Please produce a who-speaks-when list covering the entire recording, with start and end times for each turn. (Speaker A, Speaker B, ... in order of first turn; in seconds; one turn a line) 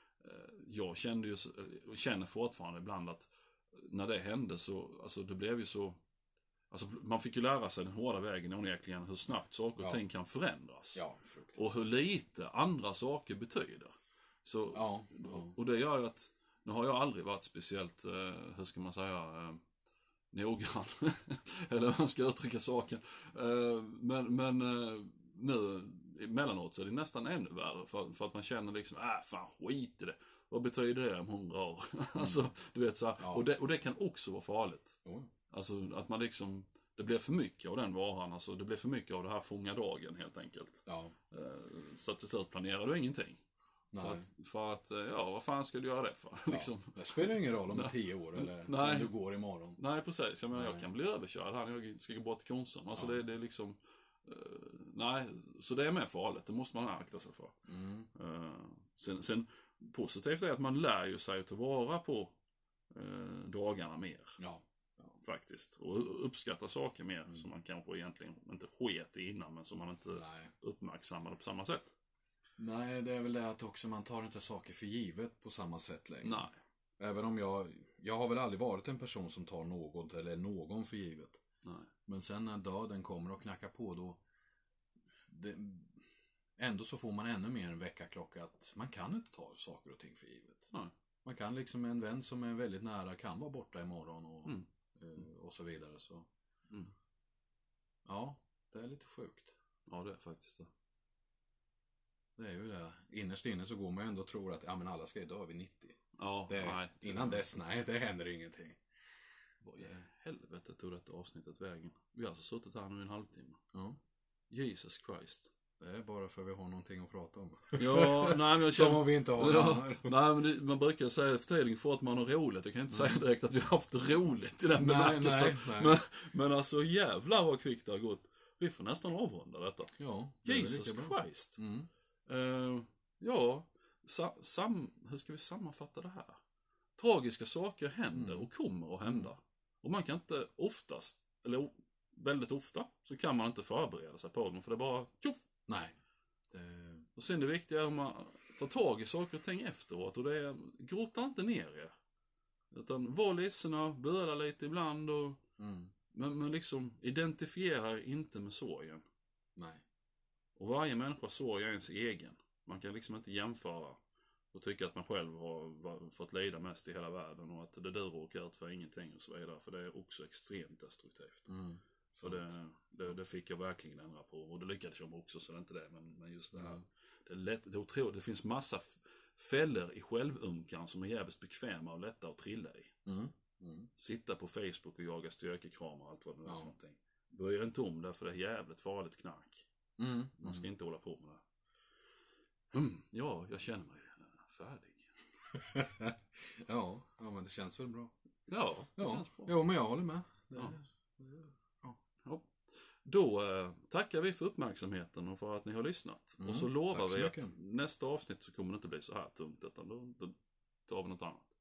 Speaker A: 0.2-6.0
Speaker A: 6.7-19.6
Speaker B: 10.9-11.8
Speaker B: 14.7-15.6
Speaker A: 20.3-35.0
Speaker B: 32.1-32.5
Speaker B: 33.2-33.4
Speaker B: 35.0-35.3
Speaker A: 35.5-43.4
Speaker B: 40.9-41.1
Speaker B: 43.9-44.2
Speaker A: 44.0-49.1
Speaker B: 46.5-49.8
Speaker A: 49.8-57.5
Speaker B: 50.5-50.9
Speaker B: 57.7-58.1
Speaker A: 58.1-62.3
Speaker A: 62.9-64.4
Speaker B: 64.4-65.2
Speaker A: 65.2-71.9
Speaker B: 70.1-70.5
Speaker B: 72.6-76.5
Speaker A: 76.2-76.6
Speaker B: 77.0-81.4
Speaker A: 81.6-81.9
Speaker B: 82.0-84.2
Speaker B: 85.2-90.7
Speaker B: 91.2-96.3
Speaker B: 98.0-99.5
Speaker A: 99.9-100.7
Speaker B: 102.4-108.8
Speaker A: 106.2-107.4
Speaker A: 109.6-113.6
Speaker B: 113.7-114.0
Speaker A: 114.5-115.5
Speaker B: 115.8-120.1
Speaker A: 117.8-129.9
Speaker B: 122.9-123.2
Speaker B: 124.8-126.0
Speaker B: 130.0-131.9
Speaker A: 130.4-131.6
Speaker A: 132.2-136.4
Speaker A: 137.0-145.4
Speaker B: 138.1-138.5
Speaker B: 139.0-139.3
Speaker B: 145.7-145.9
Speaker B: 146.5-147.1
Speaker A: 147.2-151.9
Speaker A: 152.7-155.4
Speaker B: 155.6-155.9
Speaker A: 156.1-159.0
Speaker B: 159.6-159.8
Speaker A: 160.6-164.0
Speaker A: 164.5-171.5
Speaker B: 171.5-172.6
Speaker A: 172.2-182.9
Speaker B: 176.5-176.8
Speaker B: 183.0-183.9
Speaker A: 184.0-189.7
Speaker B: 186.4-186.7
Speaker B: 190.0-190.7
Speaker A: 190.4-191.4
Speaker A: 192.7-195.2
Speaker B: 195.5-198.1
Speaker A: 198.5-199.6
Speaker B: 198.9-202.0
Speaker A: 202.2-210.3
Speaker B: 206.4-207.5
Speaker A: 210.9-211.5